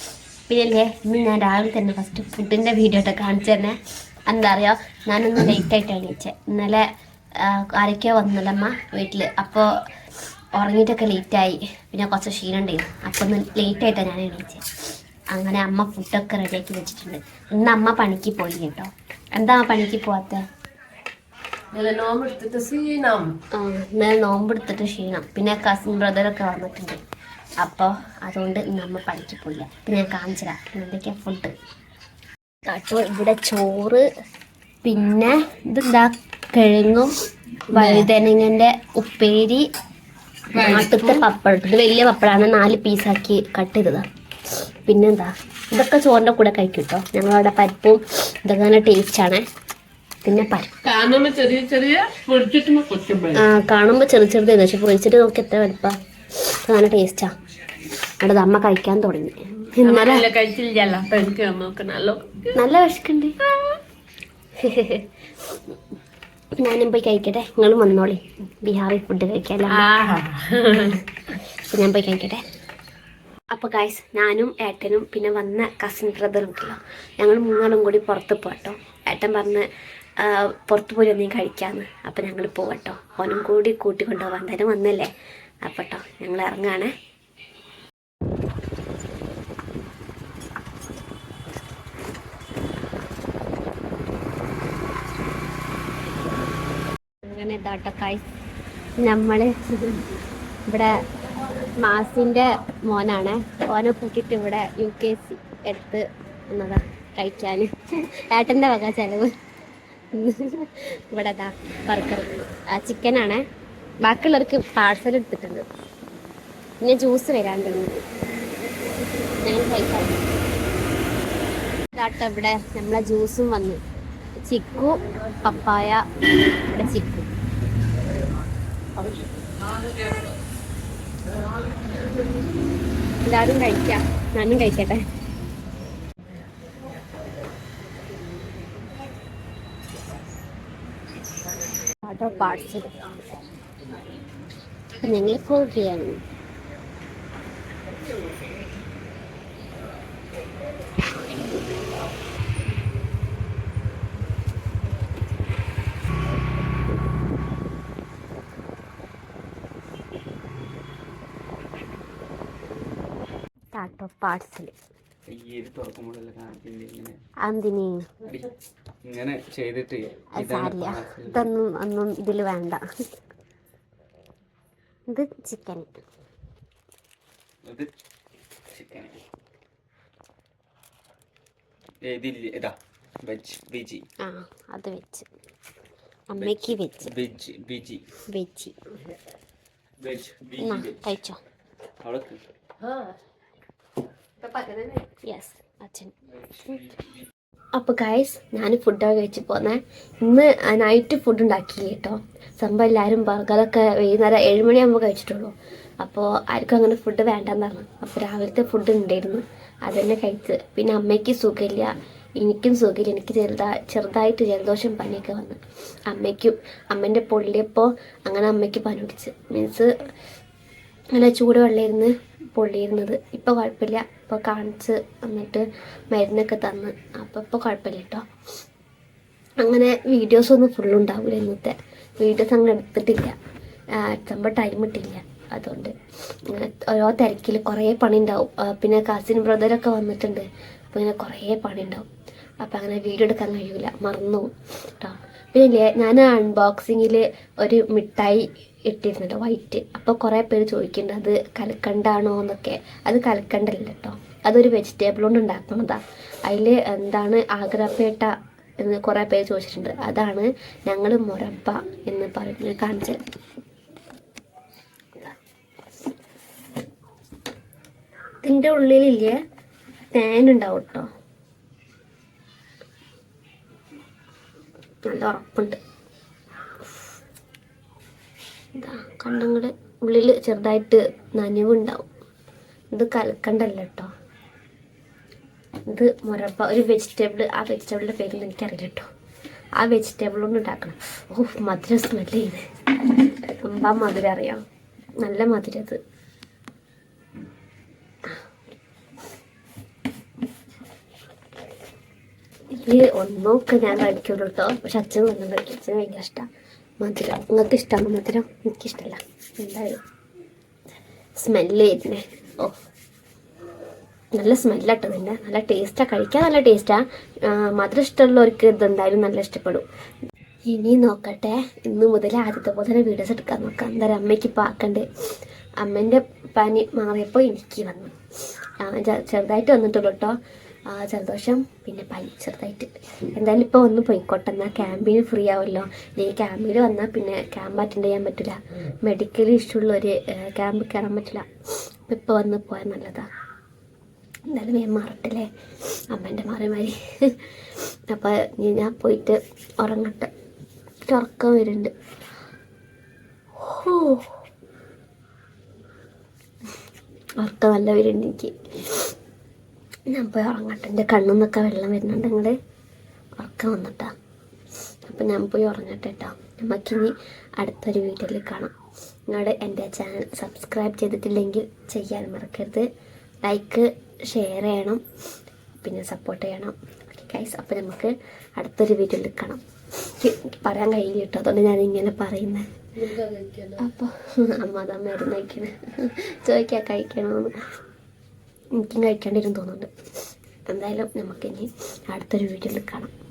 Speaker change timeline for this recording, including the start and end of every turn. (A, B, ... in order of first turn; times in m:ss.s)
0:00.5-0:09.7 A
0:10.6-0:14.7 A
0:15.3-0:20.4 A
0:21.7-0:23.4 B
0:23.5-0:27.0 A
0:27.6-0:31.5 A
0:32.7-0:34.0 A
0:34.8-0:37.1 A
0:37.7-0:38.1 B
0:37.7-0:39.6 A
0:40.5-0:41.2 B
0:40.6-0:44.0 A
0:44.9-0:49.4 A
0:50.2-0:50.7 A
0:50.8-0:53.5 B
0:53.3-0:57.3 A
0:58.2-1:00.3 A
0:59.8-1:02.6 B
1:02.5-1:03.4 A
1:04.6-1:05.1 A
1:06.6-1:09.9 A
1:09.7-1:11.0 B
1:11.6-1:12.4 A
1:13.5-1:19.7 A
1:20.2-1:25.1 A
1:25.6-1:26.9 A
1:37.2-1:38.2 A
1:39.0-1:40.1 A
1:40.7-1:41.0 A
1:41.8-1:47.7 A
1:48.3-1:49.3 A
1:50.1-1:53.4 A
1:54.0-1:55.6 A
1:56.8-1:58.0 A
1:59.4-2:00.2 A
2:02.0-2:03.8 A
2:04.4-2:06.0 A
2:06.7-2:07.3 A
2:13.2-2:15.1 A
2:22.0-2:23.1 A
2:25.0-2:26.2 A
2:43.8-2:44.7 A
2:45.3-2:47.2 C
2:47.4-2:48.1 A
2:49.0-2:51.5 C
2:50.3-2:52.8 A
2:55.1-2:56.0 A
2:57.6-2:57.9 C
2:58.7-2:59.2 C
3:02.0-3:04.0 C
3:04.2-3:05.3 A
3:06.3-3:07.1 A
3:06.4-3:08.0 C
3:08.3-3:08.8 A
3:10.0-3:11.1 C
3:10.6-3:11.4 A
3:12.0-3:12.4 C
3:14.4-3:15.0 B
3:15.1-3:16.1 A
3:17.8-3:39.9 A
3:41.1-3:48.2 A
3:49.6-3:53.4 A
3:54.0-3:55.9 A
3:56.5-4:02.1 A
4:02.6-4:18.3 A
4:18.8-4:23.2 A
4:28.4-4:29.4 A
4:30.1-4:31.1 A
4:35.0-4:35.8 A
4:38.8-4:42.1 A
4:42.9-4:44.1 A
4:45.9-4:49.1 A
4:49.8-4:52.6 A
4:53.6-4:54.6 A
4:55.2-4:56.0 A
5:02.7-5:06.4 A
5:07.0-5:10.0 A
5:11.4-5:12.8 A
5:14.4-5:19.8 A
5:20.7-5:25.1 A
5:25.8-5:28.2 A
5:28.8-5:30.4 A
5:30.9-5:41.5 A
5:42.1-5:43.3 A
5:44.5-5:45.5 A
5:46.1-5:47.5 A
5:48.1-5:50.3 A
5:51.1-5:51.9 A
5:53.6-5:54.4 A
5:57.4-5:59.1 A
6:00.1-6:02.6 A
6:03.4-6:04.1 A
6:05.1-6:08.7 A
6:09.3-6:12.9 A
6:13.4-6:15.0 A
6:15.8-6:22.6 A
6:23.0-6:23.8 B
6:23.8-6:27.6 A
6:28.8-6:29.9 A
6:30.7-6:33.1 A